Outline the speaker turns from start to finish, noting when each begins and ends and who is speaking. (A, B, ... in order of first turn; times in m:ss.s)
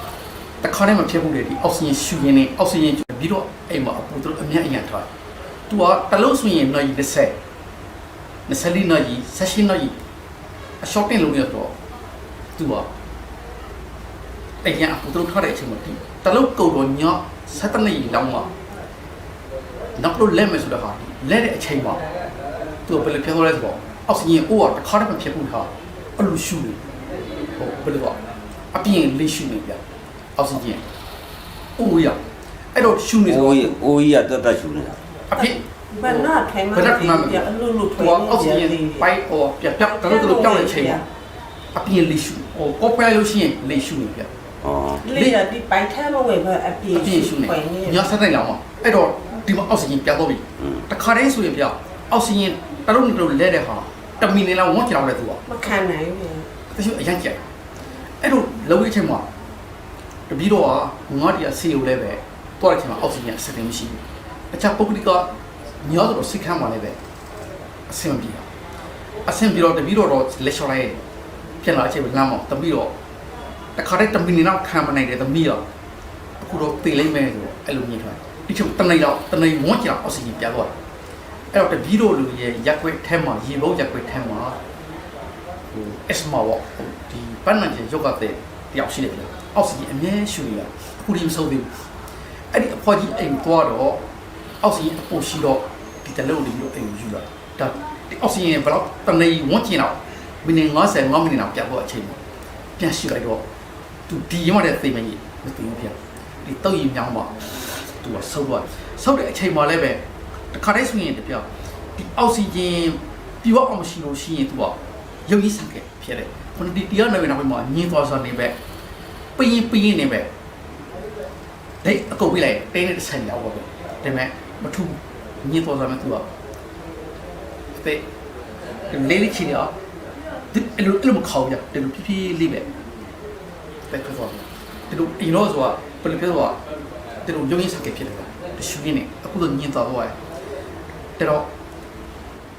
0:00.6-0:05.1 A
0:05.7-0:07.4 A
0:08.5-0:10.0 A
0:10.8-0:11.7 A
0:12.6-0:12.9 A
0:14.6-0:18.5 A
0:20.0-0:22.0 A
0:22.9-0:26.8 A
0:27.6-0:28.2 A
0:28.7-0:29.8 A
0:30.4-0:30.8 A
0:31.8-0:32.2 A
0:32.7-0:33.8 A
0:33.3-0:35.0 B
0:35.3-0:41.0 A
0:35.4-0:39.1 C
0:39.8-0:41.0 C
0:41.7-0:44.3 A
0:44.6-0:45.0 B
0:45.0-0:48.1 C
0:45.0-0:45.4 A
0:46.9-0:55.4 A
0:55.5-0:56.5 C
0:56.7-0:57.4 A
0:58.2-0:59.2 A
1:00.3-1:04.0 A
1:04.5-1:05.3 A
1:05.8-1:07.0 A
1:07.9-1:08.5 A
1:09.3-1:11.0 A
1:11.6-1:12.9 A
1:13.8-1:15.6 A
1:16.4-1:20.7 A
1:21.5-1:24.6 A
1:25.7-1:31.9 A
1:32.5-1:34.0 A
1:34.6-1:42.2 A
1:42.8-1:43.4 A
1:44.1-1:50.0 A
1:50.5-1:58.6 A
1:59.4-2:00.3 A
2:01.8-2:06.3 A
2:07.8-2:08.0 A
2:08.9-2:09.7 A
2:10.5-2:12.7 A
2:13.9-2:16.6 A
2:17.2-2:20.2 A
2:21.2-2:21.5 A